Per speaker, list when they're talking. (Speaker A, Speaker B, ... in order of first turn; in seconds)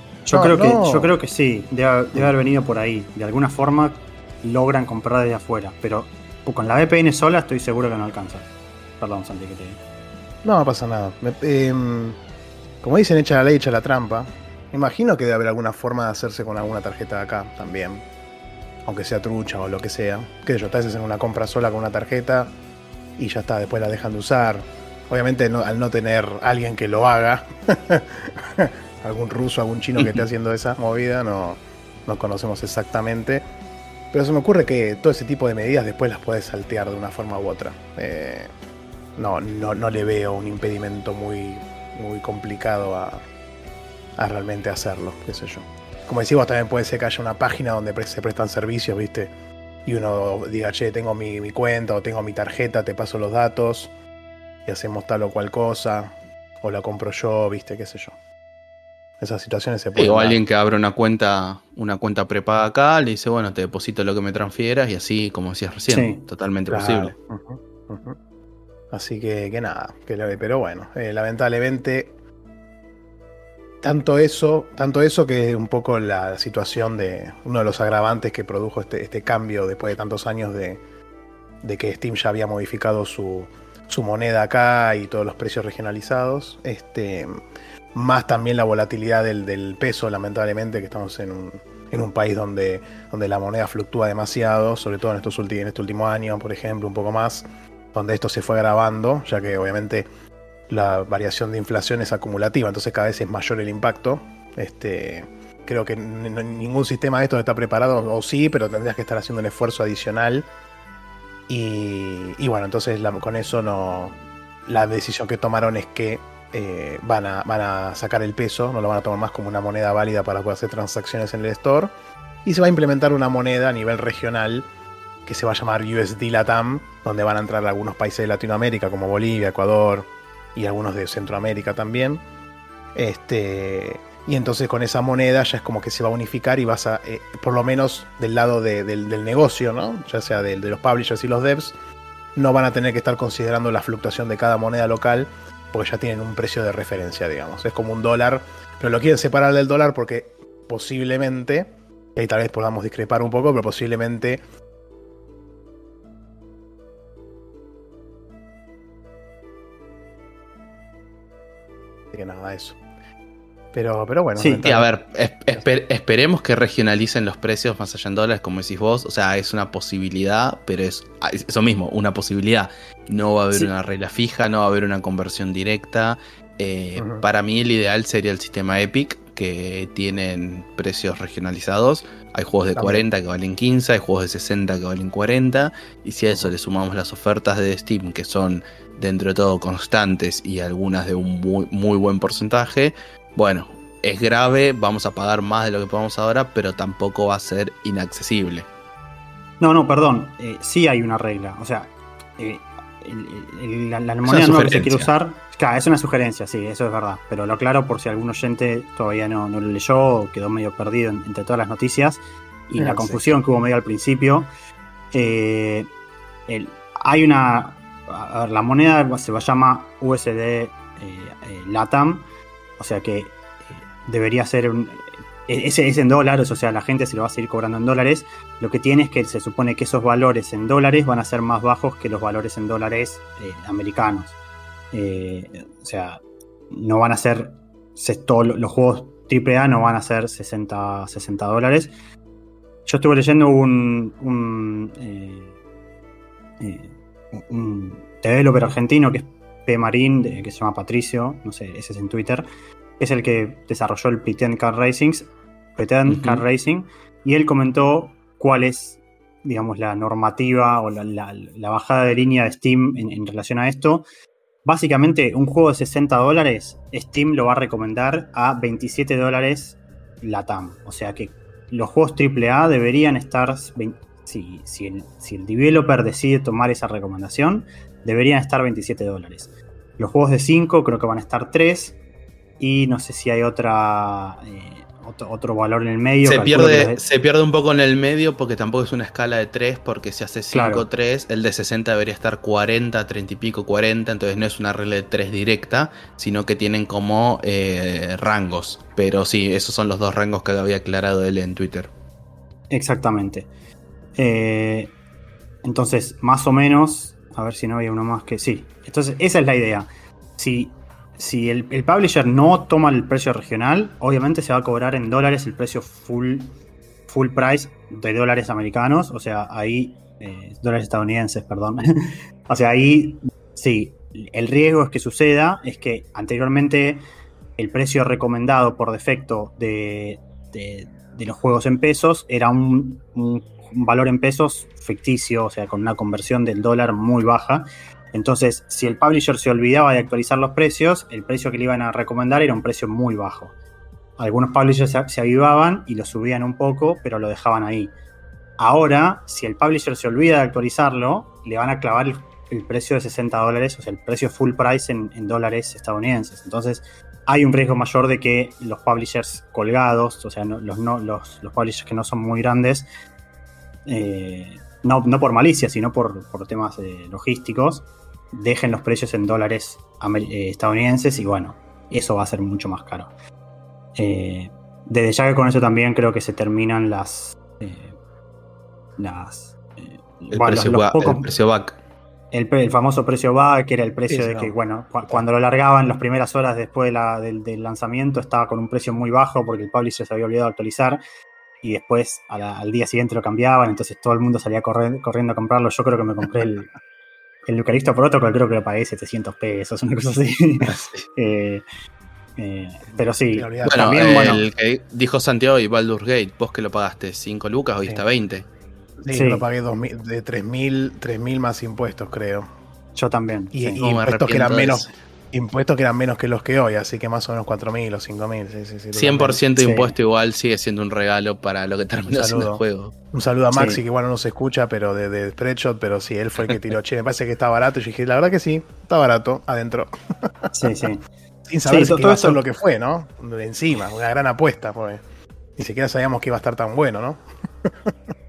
Speaker A: 0.3-8.5, 9.0-9.8, 65.9-66.2, 164.4-164.6, 199.6-214.5, 215.1-215.9, 216.5-222.3, 222.8-234.3, 234.9-241.9, 242.9-245.5, 246.6-252.5, 253.0-264.1, 264.6-282.0, 282.6-287.0, 290.5-290.9, 302.7-303.5, 304.2-304.9, 305.6-309.9, 310.4-316.5, 317.1-327.1, 327.6-343.5, 344.2-347.9, 348.6-362.9, 363.9-373.1, 374.0-378.0, 379.0-381.3, 382.3-391.0, 391.6-396.7, 397.5-401.6, 402.4-404.4, 409.1-409.5, 412.9-413.8, 419.6-419.9, 423.5-423.8, 430.5-431.1, 431.7-432.4
Speaker B: 0.3-1.1, 10.4-12.2, 12.8-18.0, 18.9-22.5, 23.2-33.4, 34.1-38.5, 39.2-43.2, 44.2-49.3, 49.9-53.9, 54.6-58.1, 59.2-60.4, 66.7-68.2, 68.9-72.1, 73.8-80.8, 81.6-87.4, 87.9-100.1, 100.7-110.5, 111.5-121.9, 122.5-124.7, 125.3-132.2, 132.9-141.8, 142.3-154.4, 162.1-162.8, 163.7-164.9, 177.0-177.2, 182.8-183.1, 212.8-213.4, 384.1-384.6, 402.9-404.4, 409.0-412.5, 413.5-419.4, 422.1-422.6, 423.1-430.9, 431.5-435.0, 435.6-437.7
Speaker C: 60.0-67.1, 164.6-198.7, 204.3-205.1, 256.1-256.4, 286.2-301.9, 380.3-381.8, 400.7-401.1, 403.6-408.5, 413.8-414.9, 418.9-422.9